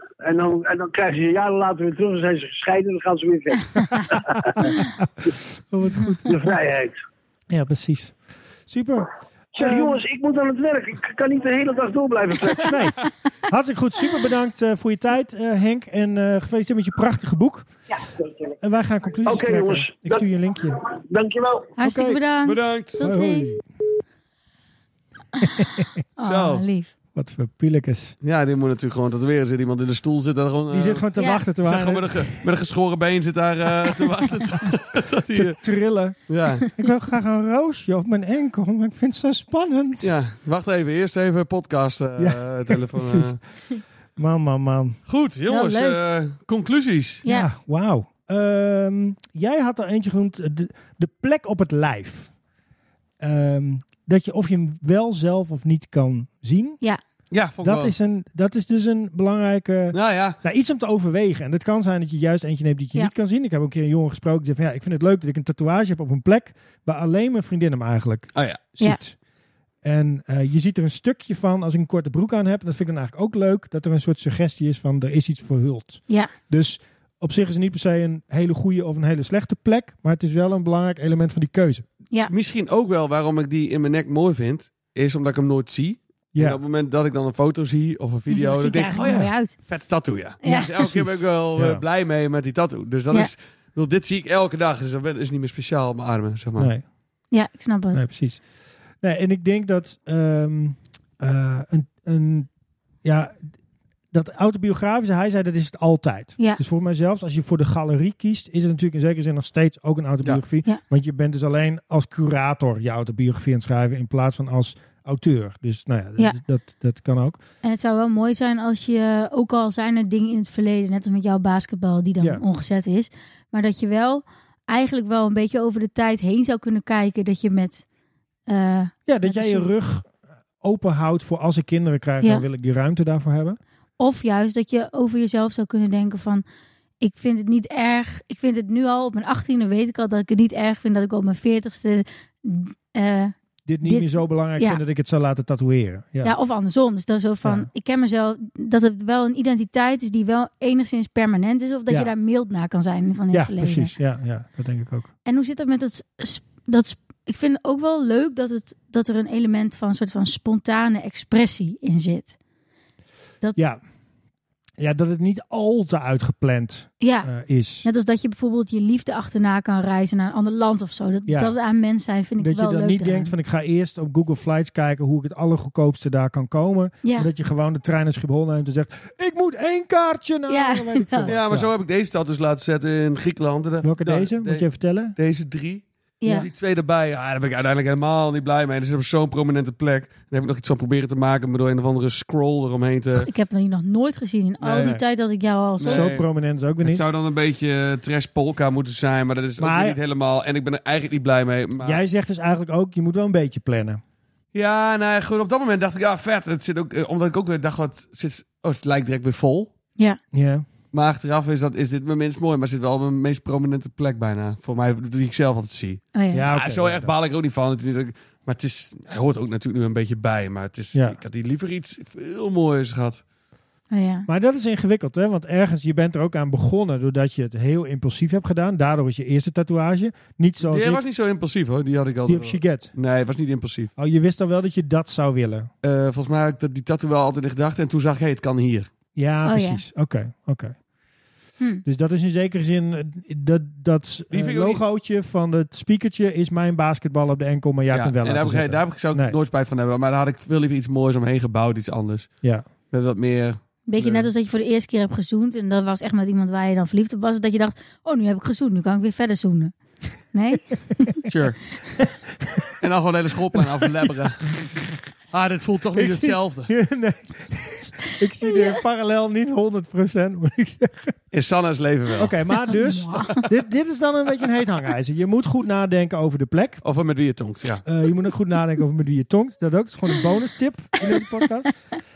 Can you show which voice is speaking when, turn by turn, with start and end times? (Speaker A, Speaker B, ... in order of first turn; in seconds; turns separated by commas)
Speaker A: 0.2-4.7, Speaker B: 4.1-6.5, Speaker A: 6.3-7.0, Speaker B: 7.5-8.2, Speaker B: 8.7-10.0, Speaker A: 9.6-12.8, Speaker B: 12.6-17.7, Speaker B: 18.6-20.8, Speaker A: 19.3-20.3, Speaker A: 20.9-21.7, Speaker C: 21.8-23.5, Speaker B: 21.8-22.2, Speaker D: 22.4-23.1, Speaker B: 23.0-23.6, Speaker C: 26.2-26.9, Speaker D: 26.2-26.7, Speaker B: 27.1-28.1, Speaker D: 28.2-31.1, Speaker B: 30.7-32.5, Speaker C: 31.2-31.4, Speaker D: 31.6-35.6, Speaker B: 35.3-40.1, Speaker D: 36.3-36.7, Speaker D: 40.0-43.4, Speaker B: 42.2-43.4, Speaker B: 44.2-45.0, Speaker D: 45.1-47.2, Speaker C: 45.5-46.0, Speaker B: 47.3-52.3, Speaker B: 53.2-56.8, Speaker D: 57.3-58.0, Speaker B: 57.6-69.2, Speaker D: 59.9-60.4, Speaker D: 68.3-68.6, Speaker B: 69.8-81.8, Speaker D: 82.3-96.7, Speaker B: 86.3-86.6, Speaker C: 88.3-89.6, Speaker B: 89.0-89.3, Speaker C: 90.4-90.7, Speaker B: 90.8-91.8, Speaker B: 96.6-96.9, Speaker C: 97.3-98.0, Speaker B: 97.9-98.5, Speaker B: 99.0-102.5, Speaker B: 103.0-103.4, Speaker B: 104.1-117.4, Speaker C: 117.6-127.8, Speaker C: 128.5-129.7, Speaker B: 129.1-130.1, Speaker B: 130.6-133.6, Speaker C: 134.0-136.4, Speaker C: 137.0-144.8, Speaker B: 143.7-146.3, Speaker C: 146.2-153.9, Speaker B: 147.4-147.7, Speaker B: 153.3-155.1, Speaker C: 155.3-162.4, Speaker B: 164.8-167.9, Speaker C: 167.0-167.3, Speaker C: 167.8-173.3, Speaker B: 171.3-171.6, Speaker B: 172.4-181.7, Speaker C: 177.0-177.3, Speaker C: 180.5-181.3, Speaker D: 181.3-193.3, Speaker B: 183.8-185.2, Speaker C: 186.2-186.5, Speaker C: 193.2-196.2, Speaker D: 194.6-195.0, Speaker B: 194.7-195.0, Speaker D: 195.8-196.2, Speaker B: 195.8-197.1, Speaker D: 196.8-202.0, Speaker B: 199.6-200.0, Speaker B: 201.8-204.0, Speaker D: 204.5-209.7, Speaker B: 210.3-210.7, Speaker D: 210.9-223.2, Speaker C: 216.1-216.4, Speaker B: 216.3-217.1, Speaker B: 220.9-221.2, Speaker C: 223.9-224.3, Speaker B: 224.3-231.0, Speaker D: 230.6-233.9, Speaker B: 232.3-232.9, Speaker B: 234.0-235.7, Speaker D: 235.8-238.9, Speaker B: 239.2-240.8, Speaker C: 239.4-239.8, Speaker B: 241.8-249.3, Speaker D: 244.3-244.8, Speaker D: 247.9-252.4, Speaker D: 252.9-254.3, Speaker C: 253.9-259.7, Speaker C: 260.3-261.1, Speaker D: 261.3-261.6, Speaker B: 262.0-262.5, Speaker D: 262.8-264.7, Speaker D: 265.3-266.7, Speaker B: 266.0-271.2, Speaker D: 271.3-272.4, Speaker B: 272.2-276.8, Speaker C: 272.7-273.4, Speaker D: 276.8-277.8, Speaker B: 277.8-281.8